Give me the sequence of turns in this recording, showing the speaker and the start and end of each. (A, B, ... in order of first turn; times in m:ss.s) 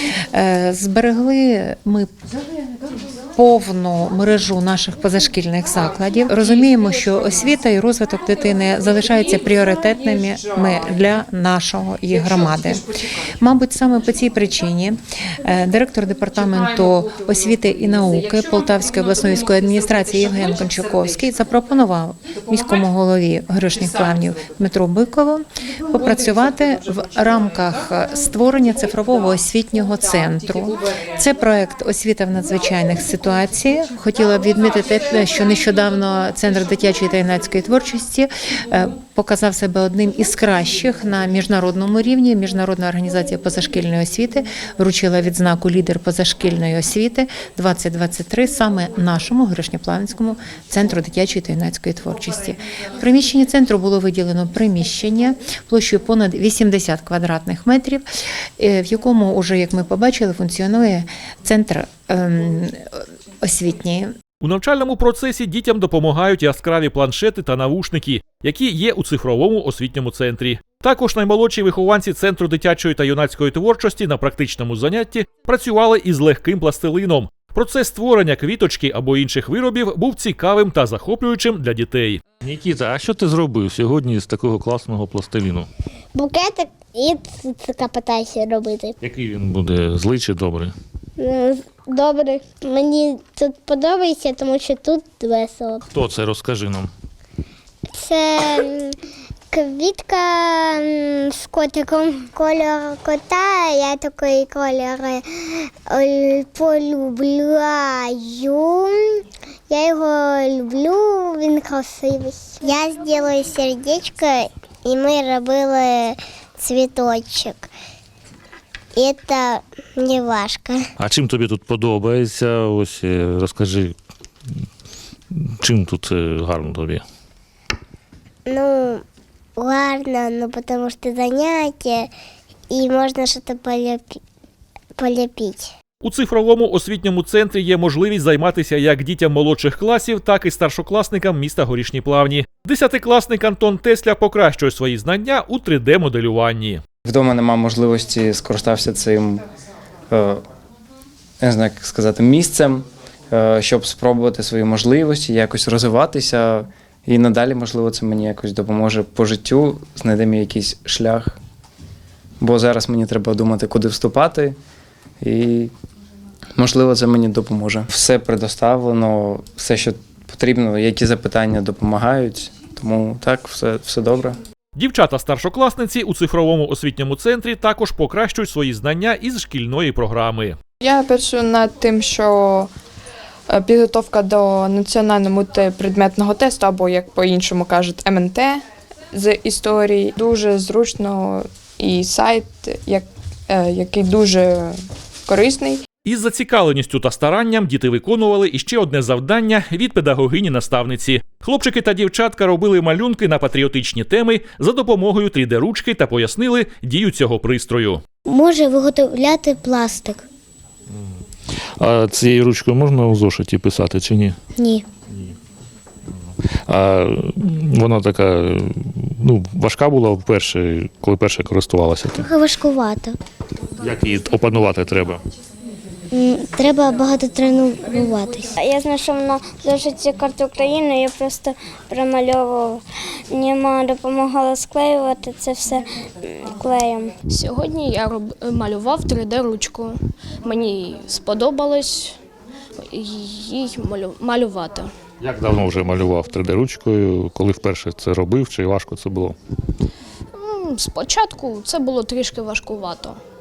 0:00.3-0:02.1 A
0:03.3-0:12.9 A
0:13.4-0:58.0 A
0:58.6-1:02.9 A
1:03.4-1:04.1 A
1:04.4-1:22.2 B
1:22.4-1:25.7 C
1:26.1-1:28.9 D
1:29.0-1:30.7 C
1:31.2-1:35.8 D
1:35.9-1:36.9 C
1:37.9-1:39.0 D
1:39.5-1:57.7 D
1:59.0-2:00.8 D
2:01.0-2:03.9 C
2:05.3-2:07.0 C
2:08.5-2:09.0 D
2:09.6-2:12.1 D
2:12.7-2:14.2 D
2:15.0-2:15.7 D
2:16.0-2:26.8 B
2:27.1-2:29.4 E
2:30.1-2:30.4 E
2:31.4-2:41.4 E
2:42.4-2:44.6 E
2:45.2-2:45.7 E
2:46.6-2:54.4 E
2:54.8-3:00.6 B
3:00.8-3:02.7 F
3:03.5-3:08.6 F
3:09.1-3:14.8 F
3:15.3-3:15.8 F
3:16.0-3:28.0 B
3:28.3-3:30.2 D
3:31.8-3:34.4 C
3:34.6-3:34.8 D
3:36.7-3:42.3 C
3:42.2-3:43.2 D
3:43.8-3:45.2 C
3:46.1-3:48.5 D
3:48.6-3:57.1 G
3:57.3-4:02.2 H
4:02.9-4:04.9 H
4:05.2-4:09.3 C
4:10.4-4:13.2 H